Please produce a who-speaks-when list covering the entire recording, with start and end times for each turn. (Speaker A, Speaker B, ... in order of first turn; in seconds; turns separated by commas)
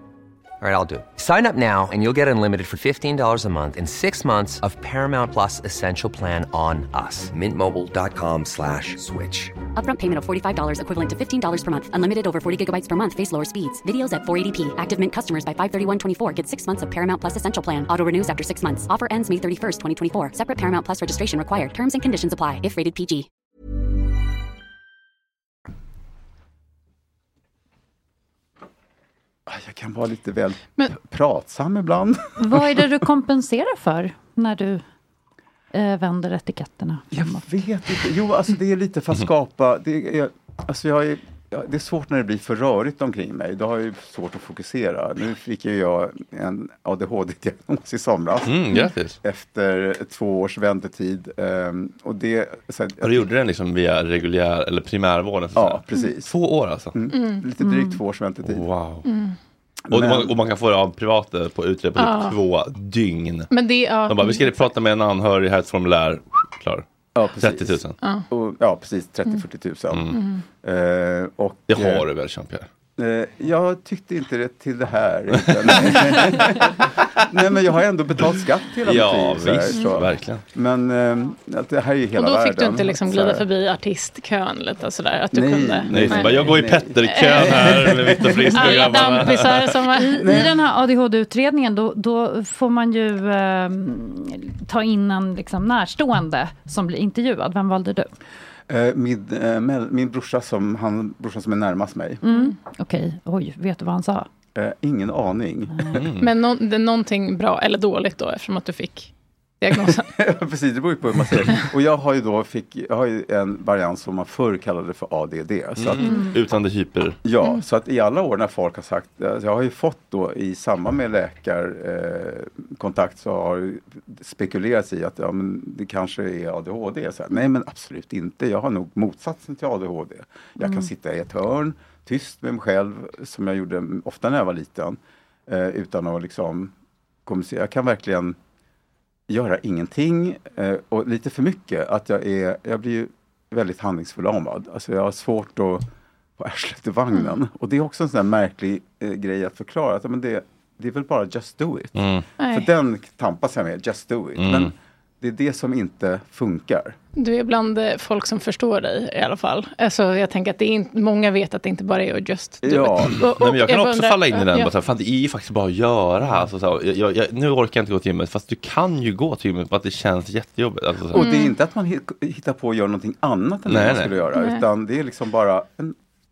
Speaker A: 0.6-9.5, Speaker B: 9.8-23.3, Speaker C: 29.5-32.8, Speaker D: 32.4-34.8, Speaker D: 35.7-37.4, Speaker C: 37.1-48.5, Speaker E: 48.4-49.2, Speaker C: 49.2-53.2, Speaker E: 53.0-57.0, Speaker C: 55.5-56.3, Speaker C: 56.9-58.6, Speaker D: 57.6-57.9, Speaker E: 58.4-59.0, Speaker F: 59.0-59.4, Speaker C: 59.9-60.3, Speaker E: 59.9-63.5, Speaker F: 62.0-62.4, Speaker F: 63.5-64.6, Speaker E: 64.1-66.8, Speaker C: 67.1-70.0, Speaker E: 67.4-68.0, Speaker E: 69.9-70.2, Speaker F: 70.1-70.4, Speaker C: 70.6-72.0, Speaker E: 71.7-72.7, Speaker C: 73.0-83.5, Speaker E: 75.4-76.2, Speaker E: 78.2-80.4, Speaker F: 82.2-86.5, Speaker C: 85.3-88.4, Speaker E: 85.9-89.8, Speaker F: 87.0-87.8, Speaker F: 88.5-90.2, Speaker D: 90.0-98.1, Speaker C: 90.1-90.5, Speaker C: 98.7-102.2, Speaker D: 102.2-104.3, Speaker C: 104.5-105.9, Speaker D: 105.8-106.0, Speaker E: 105.9-106.3, Speaker F: 106.2-110.1, Speaker C: 109.8-116.1, Speaker E: 115.8-117.2, Speaker D: 116.0-116.3, Speaker C: 117.2-136.7, Speaker D: 130.6-130.9, Speaker C: 137.2-138.4, Speaker C: 139.3-145.8, Speaker C: 146.4-151.9, Speaker E: 151.9-152.2, Speaker F: 152.4-152.7, Speaker C: 152.4-157.0, Speaker E: 154.3-154.7, Speaker F: 157.1-164.7, Speaker C: 162.6-163.2, Speaker E: 163.1-171.3, Speaker C: 171.1-175.9, Speaker D: 171.2-171.5, Speaker E: 173.7-174.2, Speaker F: 174.4-174.6